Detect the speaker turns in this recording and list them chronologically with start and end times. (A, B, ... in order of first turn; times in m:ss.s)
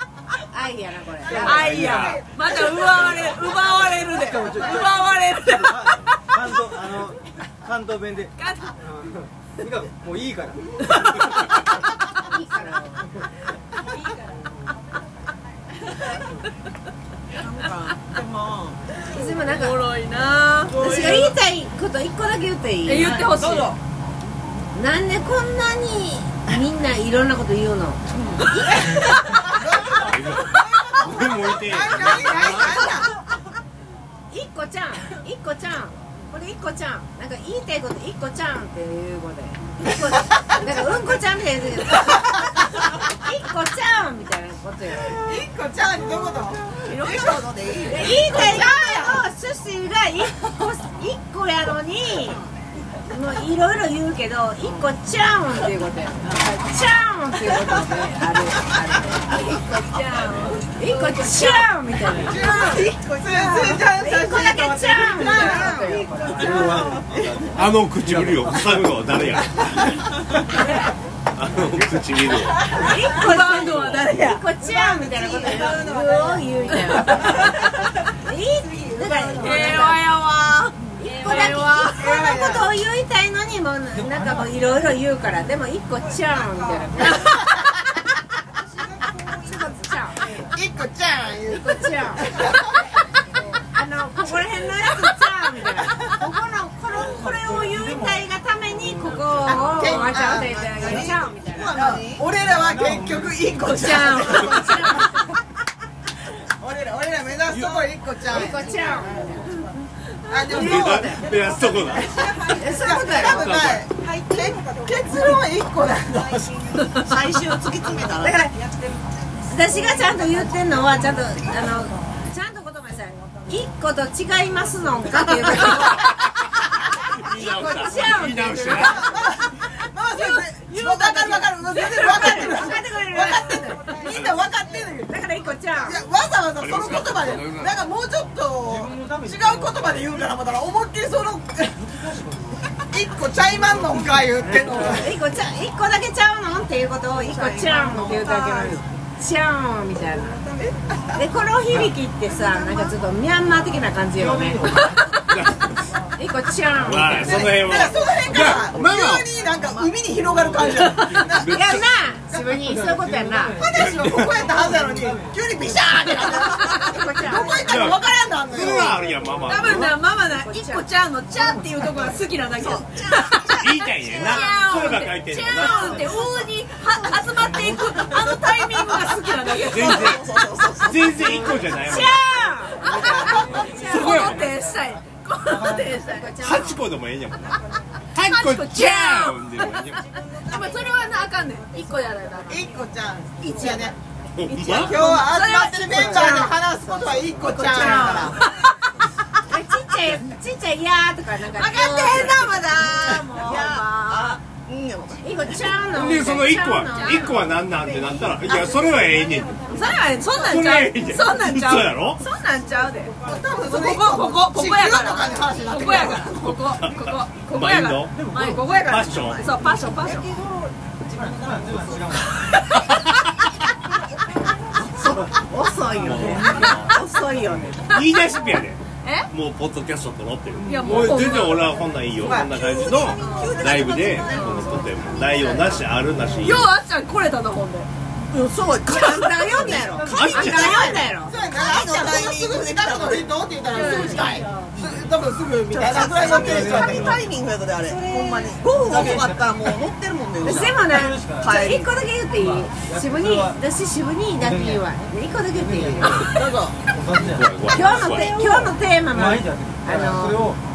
0:00.5-0:01.7 A
0:01.3-0:02.1 B
0:01.4-0:06.4 C
0:01.5-0:02.2 D
0:03.0-0:03.3 B
0:04.1-0:11.3 B
0:04.3-0:04.8 E
0:08.4-0:08.7 C
0:10.8-0:11.5 C
0:12.2-0:13.0 A
0:13.9-0:14.2 C
0:17.3-0:18.8 F
0:19.1-0:19.8 A
0:19.4-0:21.3 C
0:20.7-0:23.2 A
0:22.8-0:23.7 C
0:23.0-0:23.7 F
0:24.7-0:29.5 A
0:28.1-0:28.5 F
0:29.4-0:33.1 E
0:30.0-0:33.0 D
0:34.3-0:45.2 A
0:45.0-0:49.2 E
0:46.8-0:48.7 F
0:47.8-0:52.4 A
0:53.1-1:06.1 A
0:56.2-0:56.5 F
1:00.3-1:00.6 F
1:02.2-1:06.8 E
1:02.4-1:02.8 C
1:02.4-1:02.9 F
1:05.2-1:05.8 C
1:05.3-1:07.5 F
1:06.1-1:09.7 B
1:07.5-1:10.0 D
1:11.4-1:12.7 D
1:11.8-1:12.1 B
1:12.7-1:14.4 C
1:12.7-1:20.0 A
1:14.6-1:16.3 E
1:16.9-1:17.4 C
1:18.6-1:19.7 E
1:19.4-1:21.9 C
1:21.0-1:27.3 A
1:21.8-1:22.7 E
1:23.9-1:24.8 B
1:29.4-1:30.2 A
1:30.3-1:32.7 E
1:31.5-1:32.7 A
1:33.7-1:41.8 A
1:37.0-1:39.8 B
1:39.4-1:45.1 E
1:40.3-1:42.2 F
1:42.4-1:44.0 B
1:43.6-1:45.2 A
1:44.4-1:44.8 D
1:46.6-1:49.2 E
1:47.5-1:47.8 D
1:48.3-1:49.5 A
1:50.3-1:51.2 E
1:50.4-1:51.2 A
1:50.5-1:52.3 D
1:51.9-1:56.6 E
1:52.5-1:53.6 A
1:53.3-1:53.8 D
1:56.8-1:57.1 C
1:57.0-1:58.5 F
1:58.2-1:58.5 A
1:59.5-2:06.1 A
2:07.2-2:09.1 D
2:07.3-2:09.3 A
2:08.0-2:15.1 E
2:10.1-2:13.8 A
2:11.8-2:12.4 C
2:15.1-2:16.0 A
2:15.8-2:21.8 E
2:16.6-2:17.8 D
2:18.6-2:20.2 B
2:21.8-2:22.6 B
2:22.9-2:25.1 E
2:23.3-2:24.8 B
2:24.4-2:30.4 A
2:27.1-2:28.8 F
2:31.2-2:34.8 A
2:32.3-2:32.9 F
2:34.1-2:35.2 B
2:34.8-2:35.1 C
2:35.2-2:35.7 D
2:36.2-2:37.6 A
2:36.8-2:39.3 D
2:37.2-2:42.6 E
2:40.4-2:40.7 B
2:41.2-2:41.8 D
2:41.5-2:43.6 A
2:42.6-2:45.8 B
2:43.6-2:49.3 E
2:43.7-2:44.3 D
2:46.0-2:47.9 A
2:46.1-2:46.6 F
2:47.6-2:50.0 D
2:48.9-2:49.8 B
2:49.5-3:00.9 C
2:49.6-2:50.8 A
2:52.6-2:53.8 F
2:53.5-2:56.2 D
2:57.2-2:58.2 B
2:58.0-3:01.8 F
2:59.7-3:00.2 D
3:00.8-3:02.2 D
3:01.8-3:04.4 A
3:02.7-3:06.3 C
3:03.0-3:03.6 F
3:03.5-3:04.6 D
3:05.5-3:06.0 B
3:05.5-3:06.8 A
3:06.4-3:07.5 D
3:08.1-3:10.0 D
3:08.2-3:09.8 C
3:10.4-3:12.7 C
3:12.5-3:13.9 E
3:13.4-3:13.9 C
3:14.4-3:15.0 D
3:14.5-3:16.5 C
3:14.6-3:18.4 E
3:15.9-3:16.5 A
3:17.4-3:18.8 C
3:17.5-3:18.4 A
3:19.5-3:22.5 A
3:21.6-3:24.4 C
3:21.8-3:25.6 F
3:25.2-3:27.3 A
3:25.9-3:29.6 D
3:28.2-3:28.9 F
3:29.7-3:33.1 C
3:30.4-3:32.2 D
3:33.2-3:36.3 E
3:33.6-3:40.3 C
3:36.4-3:38.2 D
3:38.1-3:39.0 B
3:38.8-3:39.5 D
3:39.0-3:40.4 F
3:41.1-3:42.4 B
3:44.8-3:45.4 B
3:44.9-3:47.8 A
3:45.9-3:46.8 D
3:46.0-3:48.0 B
3:46.5-3:47.0 C
3:47.9-3:56.7 D
3:47.9-3:48.2 C
3:49.0-3:49.3 C
3:50.6-3:51.6 B
3:50.7-3:51.7 C
3:52.2-3:53.2 E
3:52.5-3:55.7 F
3:53.2-3:55.8 C
3:56.4-3:57.9 C
3:58.3-4:03.3 F
3:58.8-4:01.3 A
3:59.6-4:00.4 B
4:00.1-4:00.9 D
4:01.2-4:07.2 E
4:03.7-4:04.4 C
4:03.9-4:04.4 F
4:04.8-4:05.1 B
4:05.7-4:10.8 F
4:06.0-4:07.2 B
4:08.1-4:09.7 B
4:10.4-4:11.7 B
4:10.4-4:16.2 A
4:11.4-4:11.9 F
4:12.3-4:13.6 B
4:14.3-4:14.9 B
4:15.5-4:16.3 B
4:16.0-4:16.5 C
4:16.3-4:16.8 F
4:16.9-4:17.8 B
4:17.3-4:18.4 D
4:17.7-4:20.4 A
4:18.5-4:20.6 B